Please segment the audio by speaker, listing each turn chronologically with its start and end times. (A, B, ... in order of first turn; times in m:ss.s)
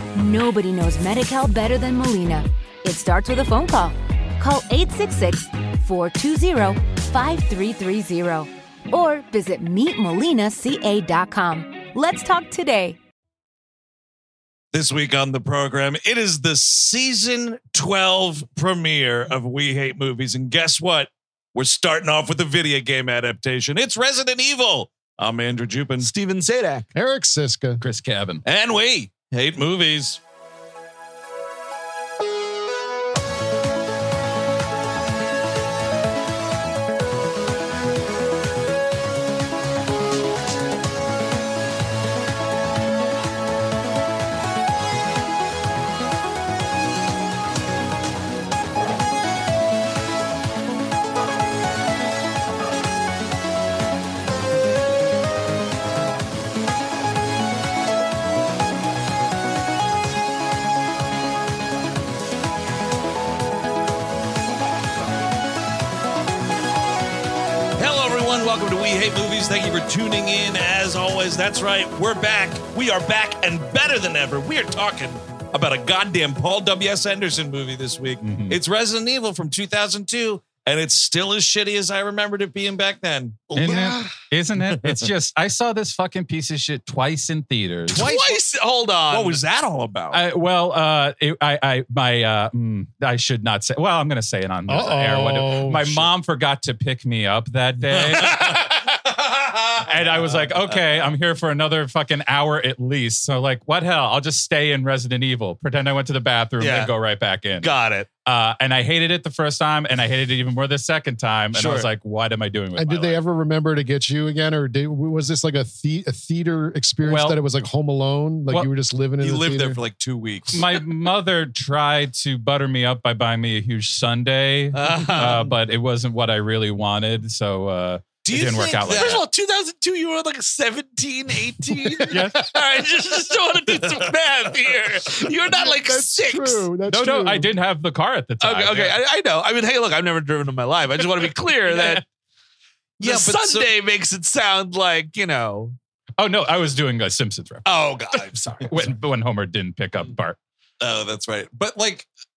0:00.1-0:13.0 A
0:14.7-0:26.1 B
0:26.0-0:26.9 C
0:26.9-0:27.8 D
0:27.8-0:28.4 E
0:28.4-0:30.2 B
1:07.8-1:23.5 B
1:18.2-1:18.6 E
1:23.5-1:23.9 C
1:23.5-1:28.2 E
1:23.6-1:24.1 D
1:24.6-1:25.0 B
1:27.9-1:28.3 B
1:27.9-1:29.4 C
1:29.1-1:30.2 B
1:30.1-1:38.7 E
1:34.7-1:36.1 D
1:37.9-1:41.0 B
1:39.8-1:47.7 E
1:46.6-1:46.9 C
1:47.6-1:48.1 C
1:48.2-1:53.2 E
1:51.5-1:51.9 B
1:52.8-1:59.8 D
1:57.0-1:57.4 E
1:59.2-2:00.7 B
2:00.5-2:09.2 E
2:04.7-2:05.5 B
2:04.8-2:05.5 C
2:08.2-2:09.2 B
2:08.9-2:16.6 C
2:12.1-2:12.4 E
2:15.5-2:17.5 D
2:16.8-2:19.0 E
2:18.4-2:22.0 C
2:21.7-2:22.0 E
2:23.0-2:23.7 B
2:23.0-2:25.8 C
2:26.2-2:27.9 E
2:27.6-2:29.0 C
2:28.6-2:30.4 E
2:30.8-2:32.1 B